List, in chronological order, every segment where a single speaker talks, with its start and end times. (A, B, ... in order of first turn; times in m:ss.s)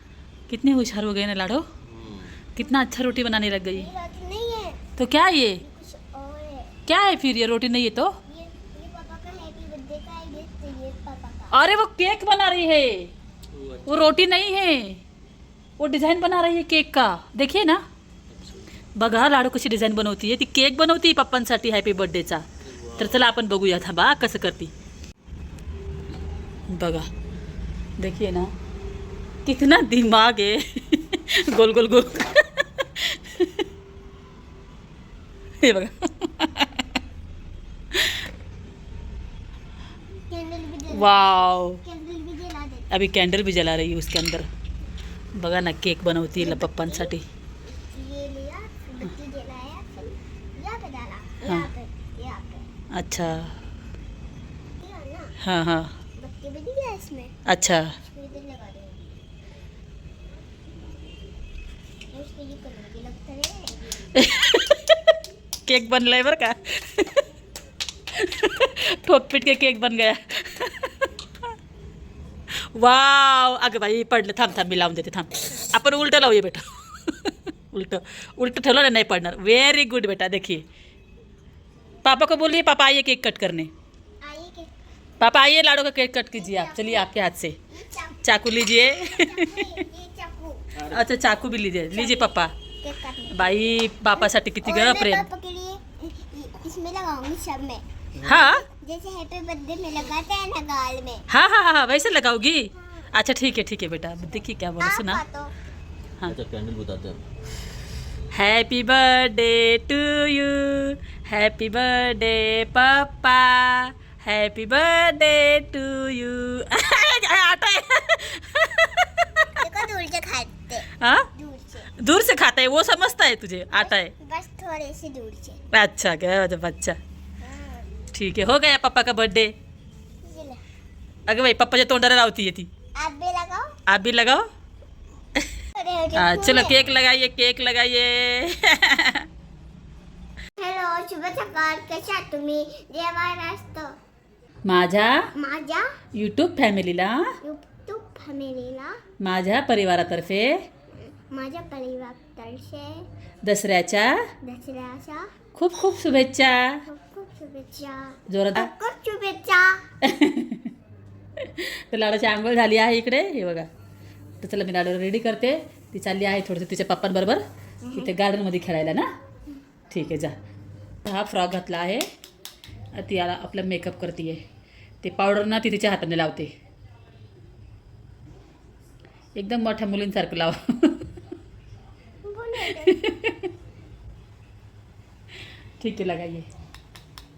0:00.5-0:01.6 A
0:01.9-0:02.3 B
0:02.5-0:03.9 A
0:03.7-0:04.8 C
0:05.0-0:05.6 A
0:05.6-0:06.7 C
0:06.9-0:08.2 A
0:08.2-0:11.6 C
0:11.5-0:13.1 A
0:13.5-0:14.1 B
0:13.8-0:15.0 A
0:15.8-0:17.8 A
0:18.3-0:18.7 B
0:19.0-0:24.7 A
0:22.6-0:23.1 B
0:26.7-0:27.1 A
0:28.0-0:28.5 A
0:29.4-0:33.6 A
0:35.6-0:36.8 A
0:37.9-0:38.2 A
0:40.3-0:42.9 C
0:40.9-0:41.8 A
0:42.9-0:44.5 A
0:45.3-0:47.2 A
0:46.4-0:47.1 C
0:47.6-0:52.7 C
0:52.9-0:53.6 A
0:54.8-0:55.3 C
0:55.4-0:55.9 A
0:56.2-0:57.3 C
0:57.4-0:58.0 A
0:58.1-0:59.2 C
1:02.1-1:04.1 C
1:04.1-1:05.1 A
1:05.6-1:07.2 A
1:08.1-1:11.1 A
1:12.5-1:20.6 A
1:22.0-1:23.7 A
1:24.2-1:24.7 C
1:25.2-1:27.6 A
1:26.3-1:27.1 C
1:27.7-1:30.8 C
1:28.2-1:29.8 A
1:30.8-1:32.5 A
1:31.9-1:41.2 C
1:33.3-1:35.3 A
1:38.2-1:38.6 A
1:41.3-1:45.2 A
1:44.8-1:45.5 C
1:46.2-1:47.2 B
1:48.3-1:59.5 A
1:59.6-2:01.9 C
2:01.0-2:01.3 A
2:01.9-2:04.1 A
2:03.7-2:05.6 C
2:05.7-2:07.0 A
2:07.4-2:07.9 C
2:08.1-2:09.5 A
2:10.2-2:10.6 C
2:11.3-2:12.7 A
2:13.0-2:13.7 C
2:13.8-2:14.4 A
2:15.7-2:16.8 C
2:16.1-2:19.2 A
2:20.6-2:23.9 C
2:24.6-2:25.3 A
2:25.4-2:25.9 C
2:26.1-2:27.4 A
2:27.4-2:29.0 C
2:29.2-2:30.6 A
2:30.9-2:33.0 C
2:33.4-2:34.2 A
2:34.4-2:35.3 C
2:35.5-2:36.8 A
2:36.8-2:39.8 C
2:38.3-2:38.7 A
2:40.0-2:40.7 A
2:41.4-2:43.7 A
2:44.4-2:47.4 A
2:47.8-2:48.1 C
2:47.9-2:49.1 A
2:49.9-2:50.3 A
2:51.0-2:52.0 A
2:52.9-2:54.4 A
2:55.0-2:56.5 A
2:59.4-3:01.1 A
3:02.2-3:03.0 C
3:02.7-3:03.5 A
3:05.8-3:06.5 A